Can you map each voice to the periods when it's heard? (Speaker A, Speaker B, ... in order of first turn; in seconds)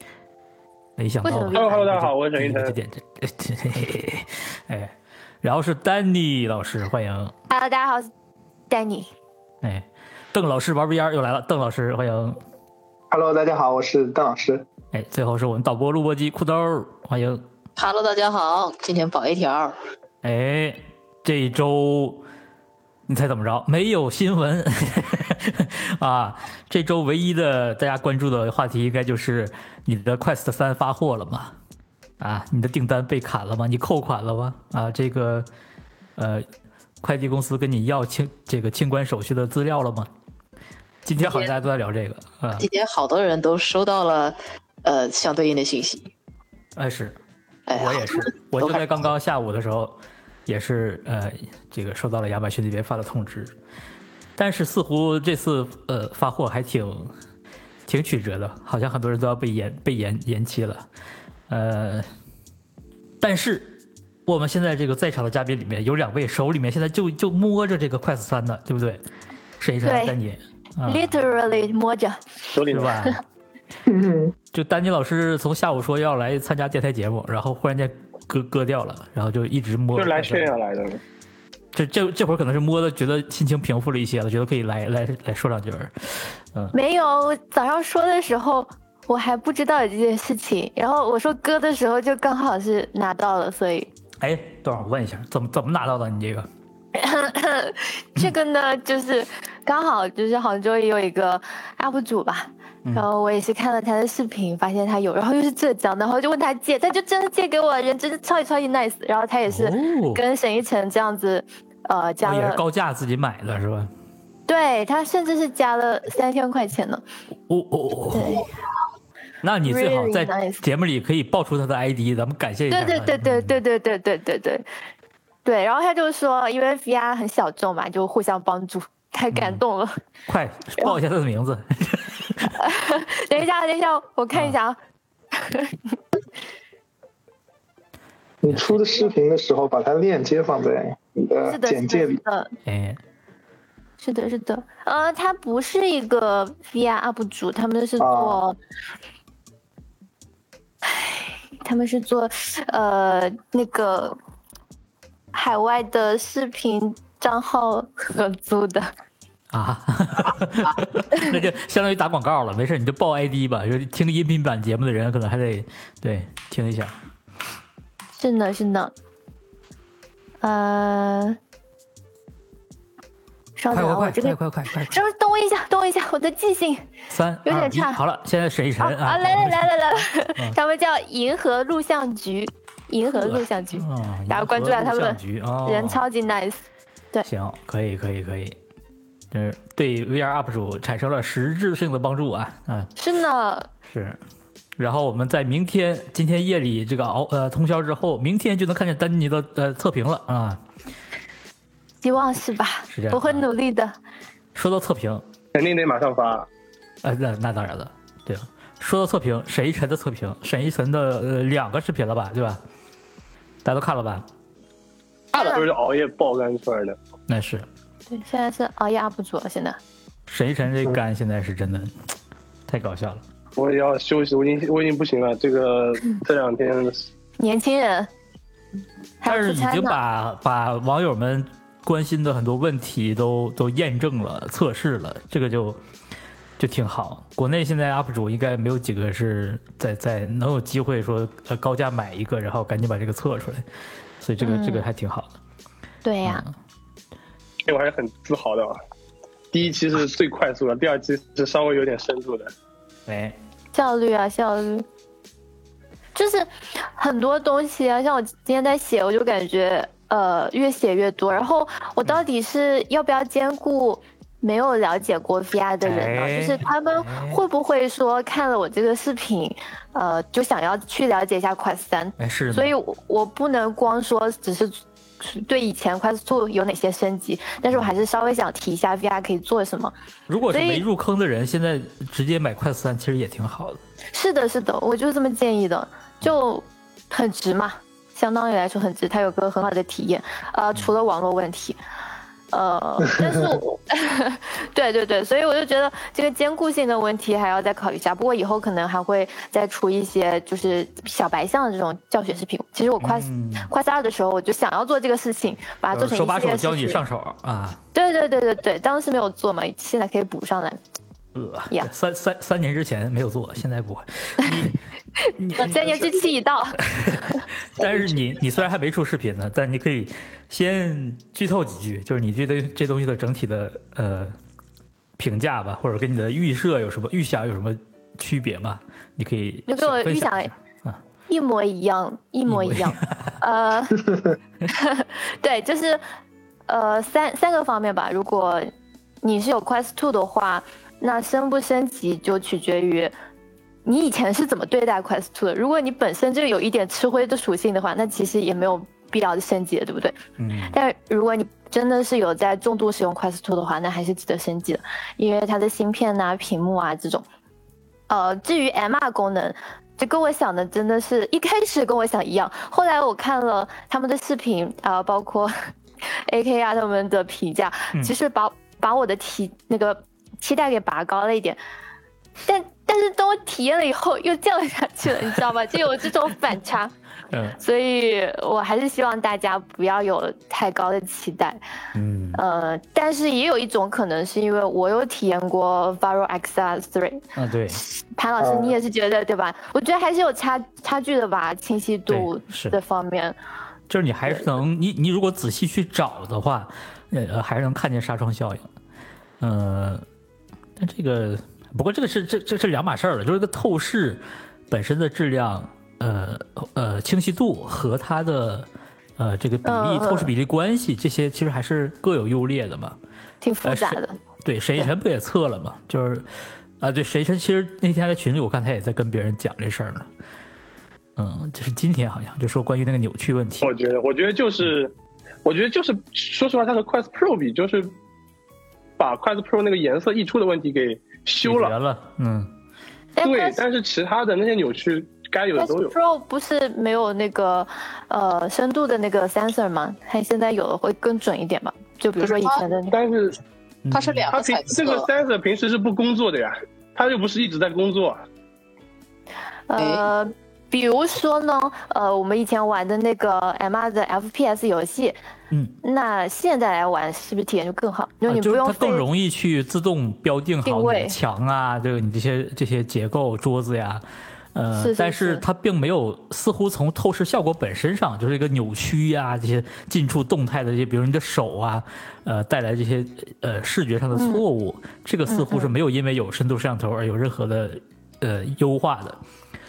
Speaker A: 1.0-7.3, 9.6-12.4, 14.9-17.4, 20.2-22.2, 23.1-31.6, 32.2-35.5, 36.2-36.5, 37.0-40.1, 41.0-42.7, 46.8-47.2, 47.7-53.5, 54.4-57.1, 57.9-60.9, 61.5-62.1, 63.2-69.0, 69.6-71.2, 72.7-73.2, 74.5-80.5, 81.7-86.8, 94.2-96.5, 109.5-110.2, 112.2-113.9, 117.5-118.4, 119.4-123.6, 129.3-129.6, 130.3-132.5, 138.5-138.8, 142.7-143.0, 159.5-166.9, 173.7-175.0, 177.1-180.6, 183.1-186.0, 187.3-188.6, 189.3-192.9, 193.9-194.2, 194.8-200.6, 202.9-203.4, 204.6-205.2, 207.0-212.6, 213.6-214.2, 217.3-217.7, 220.3-221.9, 222.7-223.2, 229.3-235.8, 236.6-243.6, 244.2-245.3, 246.2-246.5, 253.1-253.4, 265.8-267.4, 272.2-272.7, 280.3-283.8, 303.0-303.7, 305.9-307.8, 311.4-314.8, 315.4-316.1, 316.8-324.3, 325.2-331.0, 332.5-333.4, 350.4-350.8, 377.3-377.6, 381.9-382.4, 387.4-387.8, 392.1-392.8, 393.9-398.7, 399.4-400.1, 400.8-413.0, 413.6-416.3, 416.8-420.1, 421.2-423.7, 431.4-432.5, 443.9-444.2, 455.5-455.8, 458.3-464.0, 464.6-479.2
Speaker B: 1.2-1.8, 7.5-8.1, 8.7-9.1, 69.8-70.2, 70.8-72.6, 86.7-93.9, 97.0-112.6, 114.5-117.0, 118.1-118.5, 119.7-120.6, 122.7-124.7, 125.5-130.0, 132.6-134.8, 135.3-136.0, 141.5-142.5, 144.0-148.6, 150.9-154.2, 155.3-158.9, 168.2-168.9, 170.4-171.4, 173.6-176.8, 177.5-178.0, 178.8-186.6, 193.0-193.7, 202.0-204.0, 215.4-215.6, 218.1-219.8, 227.4-228.1, 229.2-230.0, 244.4-244.8, 246.1-246.4, 253.7-254.8, 256.1-279.9, 280.5-280.9, 284.1-291.8, 292.5-307.0, 307.9-310.8, 315.6-316.8, 329.7-330.5, 331.3-334.1, 334.7-336.0, 336.7-338.7, 339.2-343.1, 343.9-350.2, 350.7-357.3, 358.1-371.6, 372.5-376.9, 377.6-381.6, 382.4-393.4, 409.6-410.3, 413.4-414.2, 433.2-433.6, 435.6-443.0, 449.7-455.2, 455.8-459.1, 460.6-461.2, 464.8-465.4, 474.1-474.4, 475.3-475.7
Speaker C: 1.5-2.8, 72.5-73.0, 79.9-81.0, 205.5-206.5, 215.3-217.0, 223.6-227.1, 247.7-248.8, 249.5-252.5, 423.6-424.9, 425.4-427.9, 429.0-431.8, 433.2-436.0, 442.9-443.4, 444.3-448.2
Speaker D: 13.1-14.7, 73.9-74.3, 138.4-142.2, 148.0-148.4, 293.1-293.5, 388.4-388.8
Speaker E: 17.8-19.8, 41.2-41.5, 42.6-46.1, 47.7-49.0, 442.2-442.6, 443.9-445.1, 449.8-450.1